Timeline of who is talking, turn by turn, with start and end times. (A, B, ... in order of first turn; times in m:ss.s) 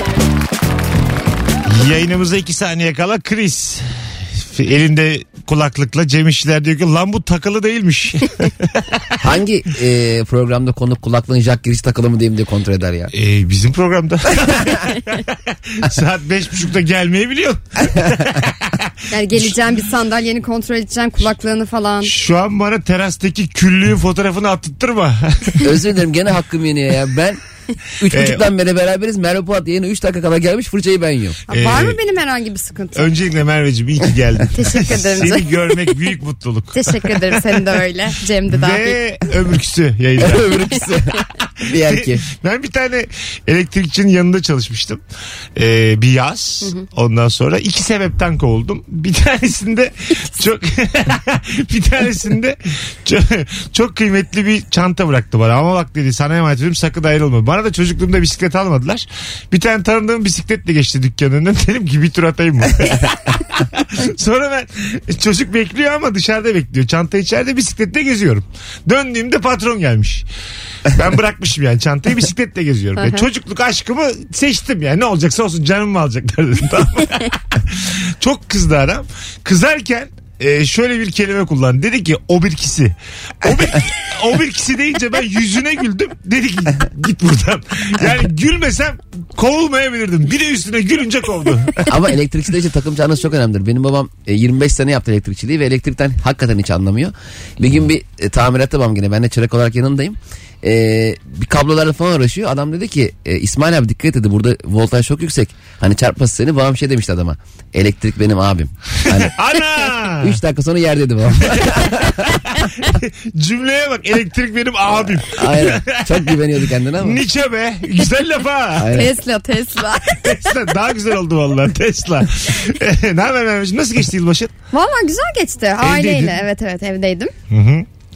0:01.6-0:03.9 A
0:04.4-0:09.1 A
0:09.2-0:13.1 B
0:13.1-0:18.9 A
0:19.1-0:22.1 C
0:22.0-0:25.7 A
0:25.6-0:27.4 B
0:28.0-0:31.4 B
0:28.1-0:28.5 A
0:31.5-0:33.1 C
0:31.5-0:32.0 A
0:33.0-0:37.4 A
0:34.5-0:35.5 C
0:36.7-0:39.0 C
0:38.5-0:40.7 A
0:40.2-0:42.2 B
0:41.7-0:45.0 A
0:45.6-1:10.3 A
1:10.9-1:32.0 A
1:13.0-1:13.2 C
1:31.9-1:49.3 B
1:49.1-1:50.4 A
1:50.2-1:52.2 B
1:51.5-1:56.3 A
1:55.3-1:57.2 B
1:57.0-1:59.1 A
1:58.8-1:59.1 B
1:58.9-2:00.2 C
2:00.1-2:04.5 A
2:04.7-2:07.3 C
2:05.8-2:06.4 A
2:07.5-2:07.9 A